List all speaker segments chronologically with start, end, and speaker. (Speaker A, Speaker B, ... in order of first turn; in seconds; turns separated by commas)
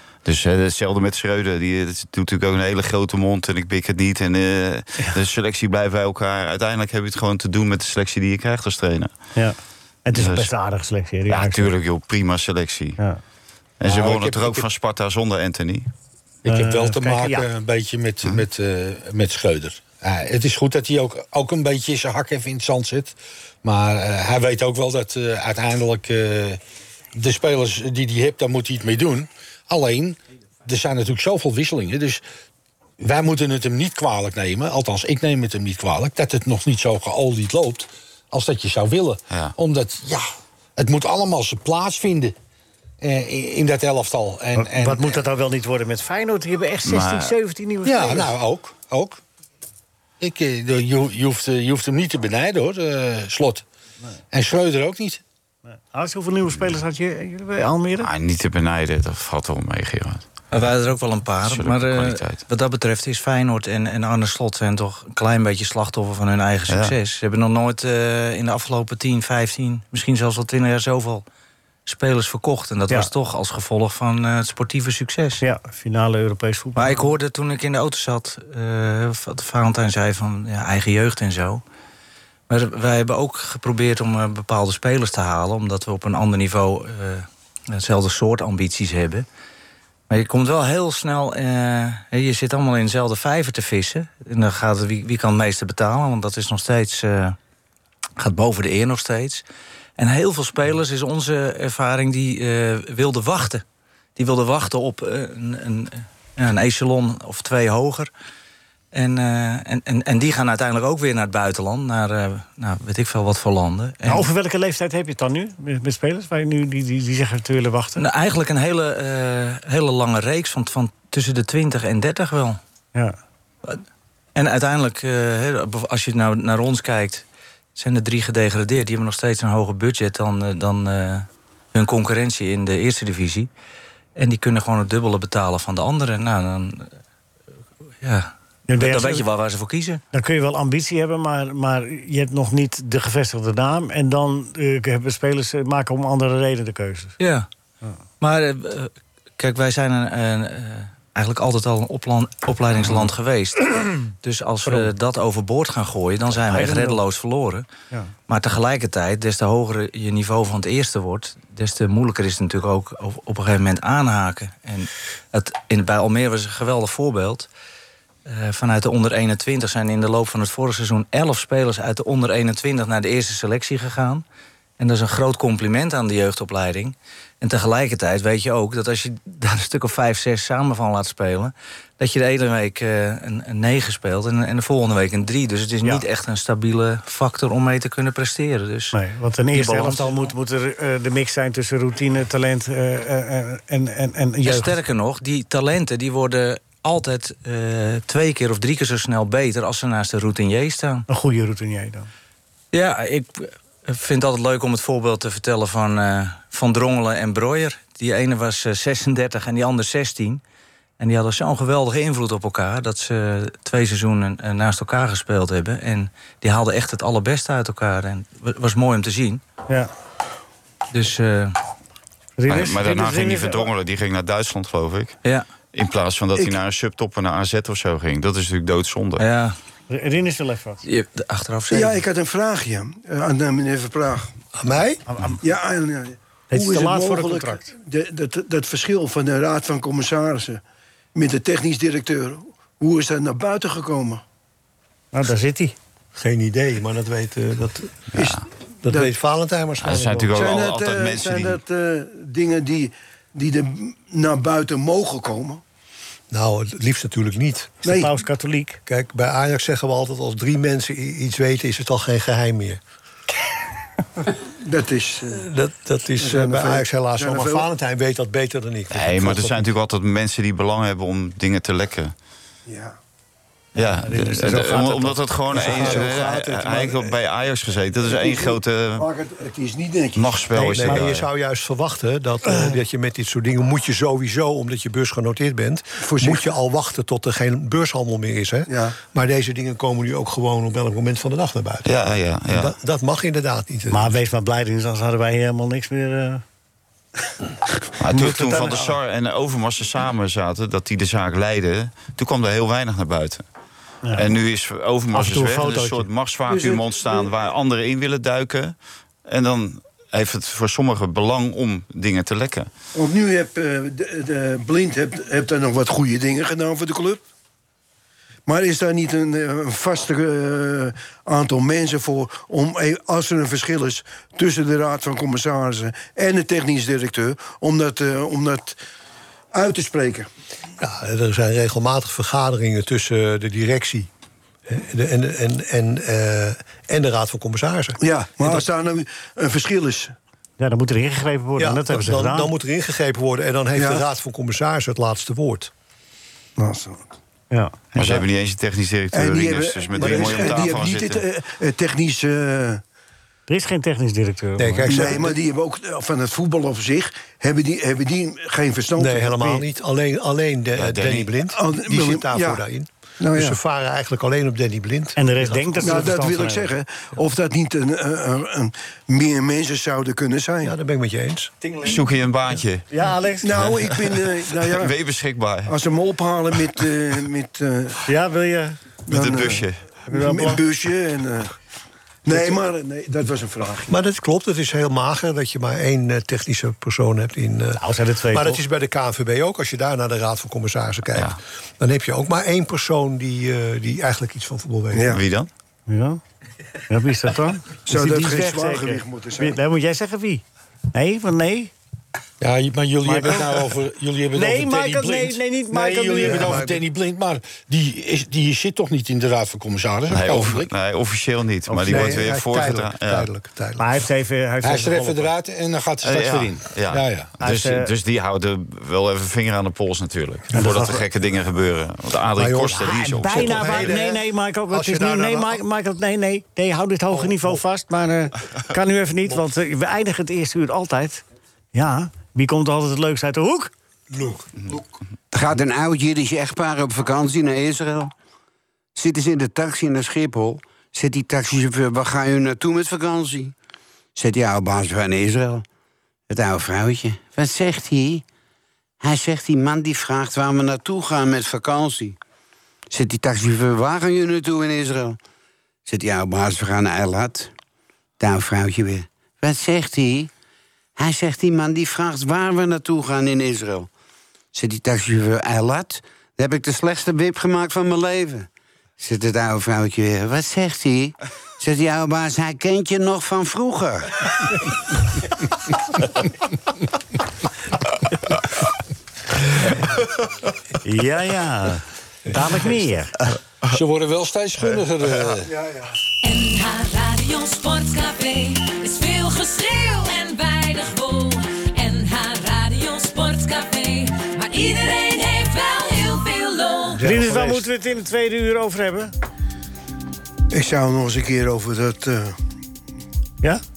Speaker A: 0.2-9.1, Speaker B: 9.3-11.7, Speaker A: 10.1-10.5, Speaker A: 11.3-13.0, Speaker A: 13.8-15.9, Speaker C: 13.8-14.6, Speaker C: 16.4-26.6, Speaker B: 16.5-17.5, Speaker C: 27.1-32.2, Speaker C: 33.0-40.2, Speaker C: 40.8-42.3, Speaker C: 43.0-45.2, Speaker B: 44.5-48.4, Speaker A: 46.9-47.3, Speaker C: 47.8-49.2, Speaker C: 50.2-53.6, Speaker C: 54.3-55.2, Speaker B: 55.7-58.1, Speaker A: 58.0-60.2, Speaker D: 60.5-71.2, Speaker A: 61.4-62.4, Speaker A: 66.7-67.0, Speaker D: 71.8-75.4, Speaker B: 75.4-77.1, Speaker D: 76.7-81.6, Speaker D: 82.5-89.2, Speaker D: 90.1-97.4, Speaker D: 98.2-99.4, Speaker D: 100.0-103.6, Speaker D: 104.2-108.1, Speaker D: 108.9-114.3, Speaker B: 114.0-118.0, Speaker D: 118.0-122.6, Speaker D: 124.3-127.2, Speaker D: 127.8-133.5, Speaker D: 134.2-137.0, Speaker D: 138.0-140.0, Speaker B: 138.7-139.2, Speaker B: 140.1-147.2, Speaker D: 147.2-147.5, Speaker D: 148.2-157.7, Speaker B: 152.8-153.1, Speaker B: 154.7-154.9, Speaker B: 156.5-157.0, Speaker D: 158.3-167.5, Speaker D: 168.2-174.2, Speaker D: 174.8-188.9, Speaker B: 188.9-194.7, Speaker D: 189.5-190.3, Speaker D: 194.4-201.0, Speaker B: 201.1-202.1, Speaker D: 202.7-210.4, Speaker D: 211.0-219.4, Speaker D: 220.9-221.6, Speaker B: 222.4-223.7, Speaker A: 222.5-225.2, Speaker A: 225.7-229.2, Speaker D: 229.2-229.5, Speaker B: 229.9-230.8, Speaker D: 230.8-232.1, Speaker E: 231.7-234.3, Speaker F: 234.5-235.0, Speaker B: 235.1-235.4, Speaker E: 235.4-240.6, Speaker B: 236.5-237.7, Speaker E: 241.1-244.2, Speaker B: 245.1-245.7, Speaker F: 246.1-250.5, Speaker A: 248.1-248.4, Speaker A: 249.8-251.6, Speaker E: 250.3-255.6, Speaker F: 256.3-257.8, Speaker E: 257.8-258.1, Speaker B: 257.9-258.8, Speaker F: 258.9-262.8, Speaker E: 264.6-265.5, Speaker F: 265.3-269.6, Speaker E: 266.2-267.6, Speaker A: 268.9-272.1, Speaker E: 272.7-272.9, Speaker A: 273.7-279.1, Speaker B: 274.0-275.2, Speaker E: 275.5-277.0, Speaker F: 275.5-276.8, Speaker E: 278.0-280.9, Speaker A: 280.1-281.2, Speaker F: 280.6-294.2, Speaker E: 286.0-286.5, Speaker E: 288.7-289.0, Speaker A: 291.8-292.7, Speaker B: 293.9-296.4, Speaker A: 298.0-303.4, Speaker B: 298.1-298.9, Speaker A: 304.1-308.7, Speaker B: 305.1-306.1, Speaker E: 306.5-307.3, Speaker A: 309.2-312.7, Speaker E: 312.9-317.2, Speaker E: 318.5-328.8, Speaker E: 329.5-330.3, Speaker F: 330.8-334.1, Speaker F: 334.6-338.7, Speaker E: 338.0-340.1, Speaker B: 340.6-342.5, Speaker F: 341.6-345.7, Speaker E: 343.7-344.0, Speaker E: 346.6-347.0, Speaker A: 347.9-351.2, Speaker F: 348.0-348.2, Speaker E: 349.1-352.8, Speaker F: 350.0-350.4, Speaker B: 353.5-355.0, Speaker F: 354.6-355.4, Speaker E: 354.9-359.6, Speaker F: 359.0-365.6, Speaker A: 360.8-361.3, Speaker E: 361.5-362.6, Speaker E: 363.2-363.6, Speaker B: 365.2-366.7, Speaker E: 365.8-370.7, Speaker F: 370.6-371.5, Speaker A: 371.8-372.9, Speaker B: 372.9-373.5, Speaker E: 373.4-374.9, Speaker A: 373.5-375.7, Speaker E: 375.7-378.0, Speaker B: 378.1-378.8, Speaker E: 379.1-381.6, Speaker A: 379.1-379.8, Speaker B: 380.1-380.6, Speaker E: 382.2-383.9, Speaker F: 382.3-382.6, Speaker F: 383.9-395.2, Speaker B: 387.8-388.6, Speaker E: 394.9-395.2, Speaker A: 395.1-395.5, Speaker B: 395.9-396.2, Speaker B: 396.9-401.7, Speaker E: 397.9-399.6, Speaker C: 402.4-410.7, Speaker B: 403.0-403.5, Speaker B: 404.3-406.6, Speaker F: 406.1-406.8, Speaker A: 410.1-413.3, Speaker F: 411.7-413.9, Speaker B: 413.8-415.3, Speaker C: 414.6-417.3, Speaker A: 416.0-423.9, Speaker B: 417.4-417.9, Speaker B: 420.5-421.0, Speaker F: 422.4-425.6, Speaker B: 423.0-431.2, Speaker F: 427.1-427.6, Speaker B: 431.7-433.7, Speaker F: 434.1-434.8, Speaker G: 435.3-438.1, Speaker G: 438.9-443.5, Speaker G: 444.1-445.6, Speaker G: 446.3-448.2, Speaker G: 449.0-452.2, Speaker G: 452.9-455.2, Speaker G: 455.9-457.5, Speaker G: 458.2-460.3, Speaker G: 461.0-463.9, Speaker G: 464.5-474.1, Speaker B: 480.8-483.2, Speaker C: 483.7-485.5, Speaker H: 486.2-497.0, Speaker F: 496.9-497.6, Speaker B: 497.0-499.1, Speaker E: 500.5-502.4